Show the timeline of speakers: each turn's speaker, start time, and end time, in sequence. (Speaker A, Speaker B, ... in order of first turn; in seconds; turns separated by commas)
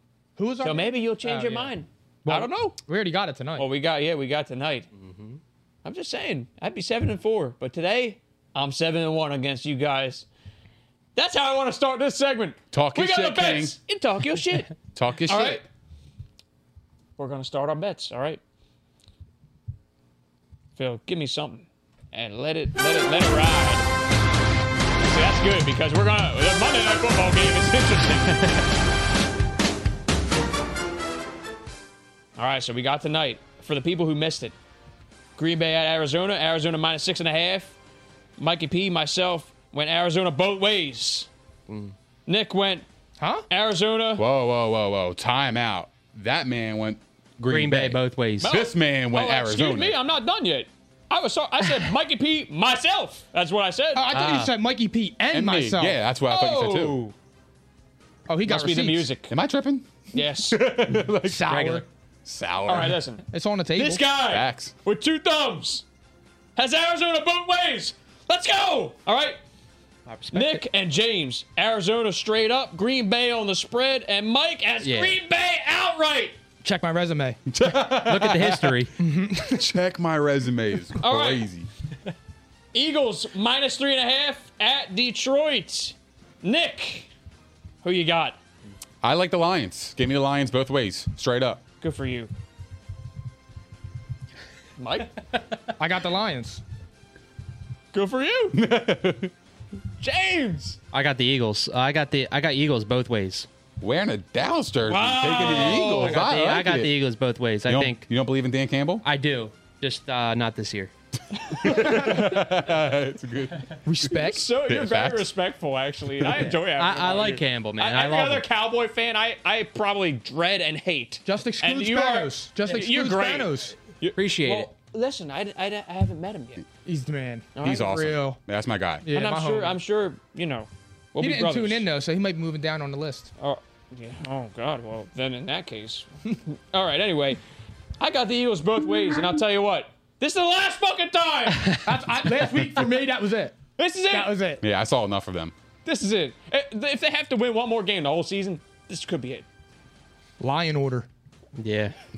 Speaker A: 0.4-1.7, Speaker B: 0.6-2.8, Speaker A: 2.2-3.7, Speaker B: 3.6-4.9, Speaker C: 5.0-5.4, Speaker B: 5.8-10.3, Speaker B: 11.2-14.8, Speaker D: 12.7-13.8, Speaker D: 14.9-15.6, Speaker B: 15.3-15.6, Speaker B: 17.2-18.4, Speaker B: 20.8-23.9, Speaker B: 25.1-28.5, Speaker B: 32.4-34.5, Speaker B: 35.4-37.8, Speaker B: 38.4-41.3, Speaker C: 41.7-41.9, Speaker B: 42.3-42.9, Speaker A: 43.2-43.5, Speaker B: 43.5-44.3, Speaker D: 44.2-50.0, Speaker C: 47.5-48.5, Speaker B: 48.4-54.1, Speaker A: 53.9-56.0, Speaker C: 54.1-54.5, Speaker D: 55.3-57.0, Speaker B: 56.3-57.1, Speaker A: 58.3-59.1, Speaker B: 58.5-59.3, Speaker D: 59.3-63.0, Speaker B: 60.1-60.6, Speaker A: 61.2-61.9, Speaker B: 62.7-63.2, Speaker A: 63.3-64.1, Speaker B: 63.8-65.8, Speaker D: 64.2-64.7, Speaker B: 66.6-69.4, Speaker C: 70.1-70.6, Speaker B: 70.3-76.4, Speaker C: 74.8-75.2, Speaker A: 76.6-77.4, Speaker D: 77.5-78.9, Speaker C: 77.9-78.9, Speaker A: 79.0-79.7, Speaker D: 79.4-81.7, Speaker B: 81.0-81.5, Speaker B: 82.7-87.1, Speaker B: 87.8-88.4, Speaker D: 89.0-91.6, Speaker B: 91.8-92.3, Speaker B: 94.8-95.2, Speaker A: 95.8-96.6, Speaker B: 97.9-98.6, Speaker D: 98.5-99.3, Speaker B: 100.0-100.8, Speaker C: 100.9-103.5, Speaker D: 103.8-107.0, Speaker B: 104.8-106.2, Speaker C: 105.3-108.0, Speaker D: 107.7-109.0, Speaker C: 109.0-110.9, Speaker B: 111.3-112.5, Speaker D: 111.5-115.3, Speaker A: 111.7-112.3, Speaker A: 113.8-114.5, Speaker B: 114.2-126.6, Speaker C: 116.4-118.4, Speaker A: 121.2-123.8, Speaker C: 124.2-124.7, Speaker A: 126.8-128.4, Speaker B: 127.5-128.1, Speaker D: 127.6-129.1, Speaker A: 129.0-129.8, Speaker B: 129.1-131.9, Speaker A: 131.2-133.3, Speaker B: 133.4-137.4, Speaker B: 138.0-141.8, Speaker A: 141.8-143.6, Speaker B: 143.8-144.4, Speaker A: 144.1-144.6, Speaker D: 144.6-145.5, Speaker B: 145.9-149.5, Speaker A: 150.4-151.1, Speaker C: 151.6-152.0